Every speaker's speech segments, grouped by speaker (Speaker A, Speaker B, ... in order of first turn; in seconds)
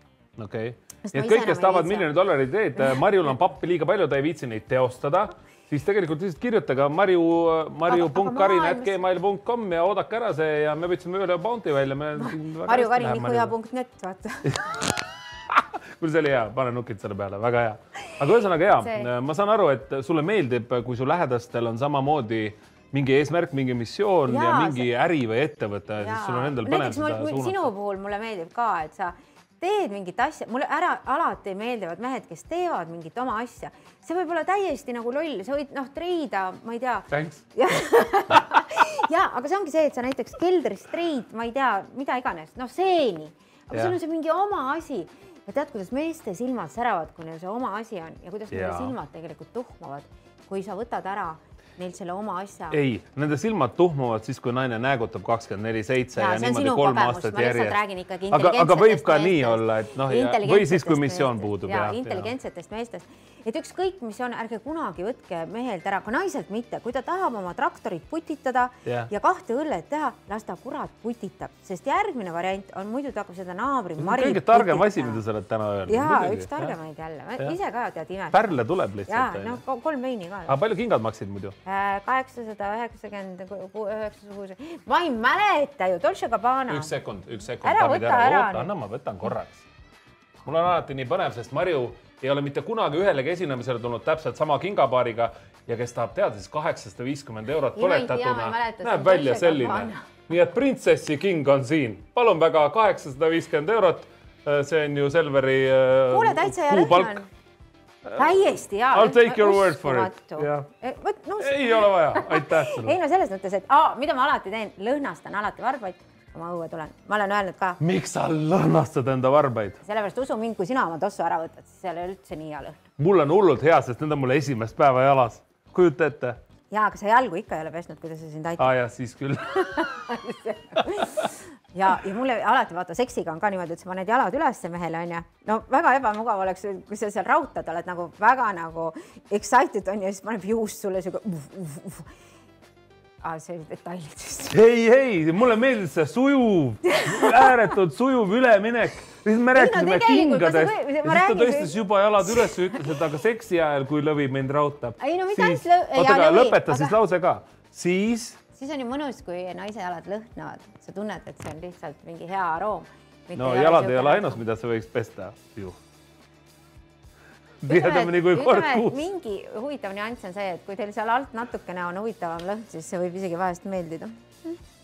Speaker A: 0.4-13.5, 14.4-27.7, 37.1-37.4, 38.3-38.6, 48.5-48.9, 52.7-62.3, 68.8-69.1, 74.0-76.7, 78.3-79.6, 80.5-81.5, 86.7-89.6, 90.4-107.2, 108.0-110.7, 111.4-113.0, 117.8-119.8, 123.0-126.4, 128.6-130.0, 130.8-131.0, 144.5-158.4, 163.3-165.8, 167.6-169.1
Speaker B: 1.0-2.1, 7.9-9.0, 12.2-14.7, 18.8-19.1, 24.3-24.9, 26.0-52.8, 56.1-75.2, 75.9-80.5, 81.6-86.9, 87.6-88.7, 97.7-100.1, 106.1-107.2, 108.1-117.8, 119.8-122.8, 126.7-128.7, 129.4-142.1, 143.2-144.6, 146.9-147.7, 149.5-152.9, 155.0-157.0, 158.5-164.4, 167.7-174.6